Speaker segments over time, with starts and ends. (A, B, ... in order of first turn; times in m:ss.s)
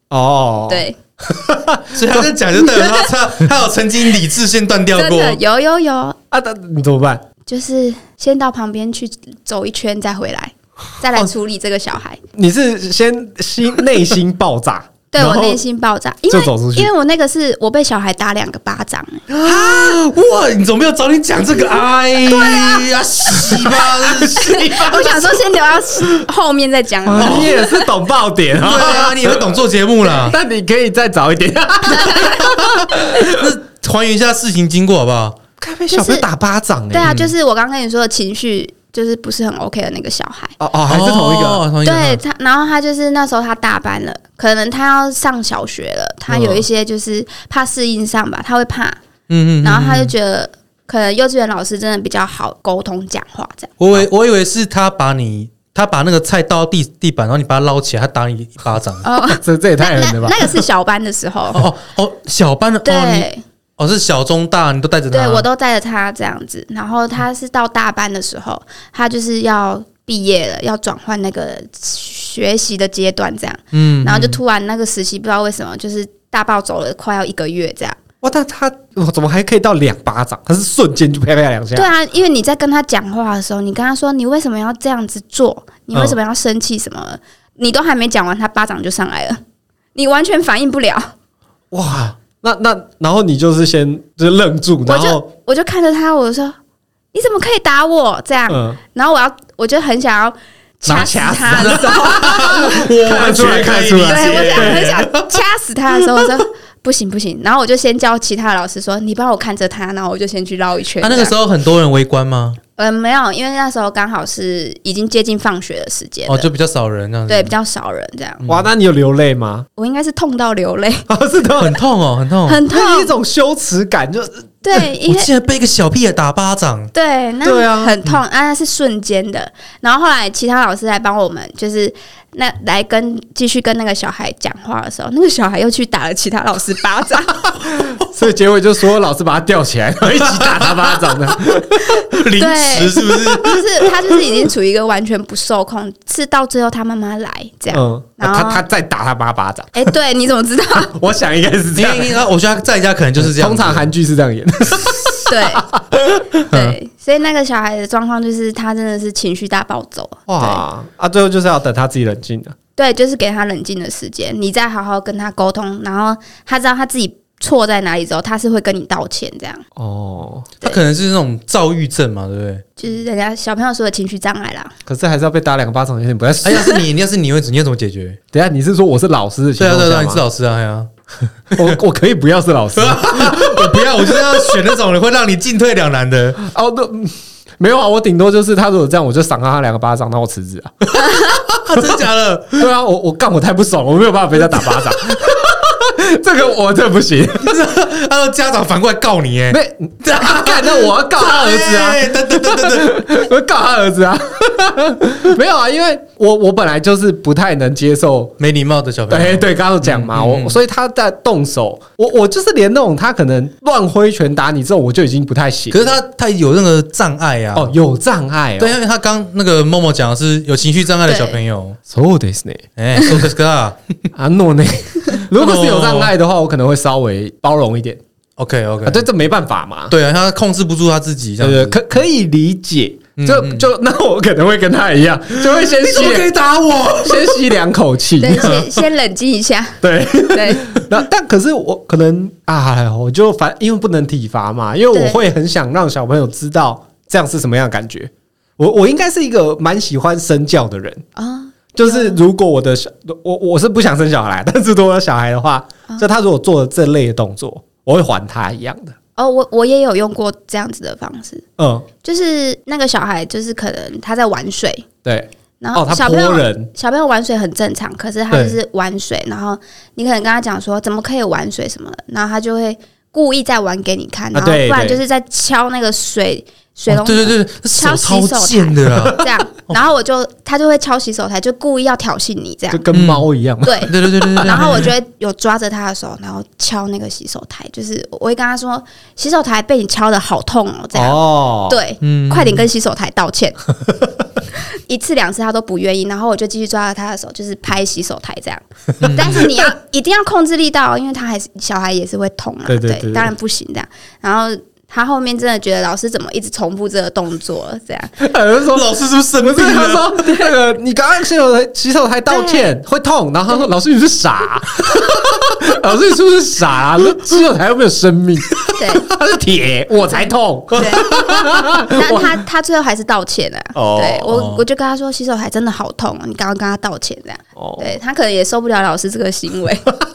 0:00.1-0:02.3 A
0:00.7-0:01.0 B
0:01.9-0:05.4 C
0:05.0-0:06.2 B
0:06.3-0:07.2 A
0:07.5-0:12.2 B
0:12.4-0:15.6 A
0:15.1-0:19.2 B
0:16.3-0:16.9 A
0:19.3-0:24.5 C
0:19.4-0:20.0 A
0:22.4-0:25.4 A
0:24.4-0:27.6 B
0:27.0-0:33.5 A
0:27.2-0:27.6 C
0:28.6-0:30.4 C
0:31.9-0:32.4 B
0:33.2-0:35.4 C
0:35.6-0:37.2 A
0:35.9-0:36.2 B
0:36.9-0:40.6 B
0:37.0-0:37.3 C
0:40.6-0:41.6 A
0:40.9-0:42.2 C
0:41.8-0:49.0 B
0:49.3-0:50.1 C
0:49.6-0:53.7 B
0:53.8-0:59.0 C
0:59.0-1:01.7 B
0:59.4-1:00.6 A
1:01.5-1:05.5 C
1:02.8-1:03.4 B
1:05.1-1:18.0 B
1:13.7-1:14.4 C
1:18.2-1:21.9 A
1:21.7-1:29.4 B
1:25.9-1:26.2 A
1:30.0-1:31.1 B
1:31.7-1:35.3 A
1:34.8-1:36.6 B
1:37.1-1:42.8 B
1:38.5-1:38.8 A
1:40.8-1:45.0 A
1:41.2-1:45.4 C
1:44.0-1:51.4 B
1:51.0-1:52.6 C
1:52.8-1:56.5 B
1:56.3-1:57.6 C
1:57.3-1:58.4 B
1:58.4-1:58.7 C
1:58.5-1:59.7 A
1:59.8-2:01.1 B
2:01.1-2:01.8 A
2:01.6-2:02.6 C
2:02.5-2:03.1 B
2:02.7-2:04.5 A
2:04.6-2:05.3 B
2:05.0-2:06.9 C
2:06.9-2:17.5 B
2:07.4-2:08.0 A
2:17.8-2:22.0 A
2:20.2-2:21.1 C
2:21.9-2:23.9 C
2:22.3-2:28.6 B
2:27.7-2:29.9 A
2:29.7-2:30.9 B
2:30.8-2:32.2 A
2:31.8-2:33.9 C
2:33.2-2:36.6 A
2:35.3-2:35.7 B
2:36.5-2:40.6 B
2:40.3-2:42.6 A
2:42.8-2:49.6 B
2:49.8-2:50.6 A
2:50.6-2:52.6 C
2:52.8-2:54.7 B
2:54.9-2:56.8 A
2:56.4-2:58.2 C
2:58.3-3:00.2 A
2:59.6-3:00.9 C
3:01.5-3:04.6 A
3:02.8-3:06.4 C
3:06.4-3:11.9 A
3:11.5-3:12.7 C
3:12.6-3:17.6 A
3:17.4-3:23.1 C
3:19.5-3:28.3 A
3:28.4-3:30.6 C
3:29.1-3:36.0 A
3:35.7-3:37.7 C
3:37.6-3:38.8 A
3:38.6-3:41.8 C
3:41.1-3:41.4 B
3:41.9-3:43.2 A
3:42.8-3:43.8 C
3:44.2-3:48.0 A
3:45.3-3:46.1 C
3:48.4-3:49.1 C
3:48.8-3:49.9 A
3:49.9-3:51.8 C
3:51.4-3:58.6 A
3:53.2-3:53.7 C
3:55.4-3:57.4 C
3:58.2-4:00.7 B
3:58.4-3:58.8 C
3:59.8-4:11.0 A
4:04.9-4:05.2 B
4:11.2-4:12.2 B
4:11.7-4:19.0 A
4:19.2-4:21.4 B
4:21.6-4:21.9 A
4:22.0-4:24.9 B
4:25.0-4:26.7 A
4:25.6-4:42.9 B
4:28.3-4:28.6 A
4:34.3-4:35.0 A
4:36.9-4:39.8 C
4:42.7-4:44.8 A
4:42.9-4:43.3 C
4:43.6-4:53.6 B
4:43.9-4:44.9 C
4:50.9-4:51.8 A
4:52.0-4:52.6 C
4:54.9-5:08.2 B
4:59.0-4:59.5 C
4:59.1-4:59.4 A
5:02.7-5:03.3 A
5:08.2-5:22.4 A
5:08.7-5:10.2 C
5:12.3-5:12.7 B
5:18.8-5:19.1 B
5:20.8-5:29.9 B
5:23.7-5:24.3 A
5:24.3-5:24.6 C
5:27.6-5:27.9 A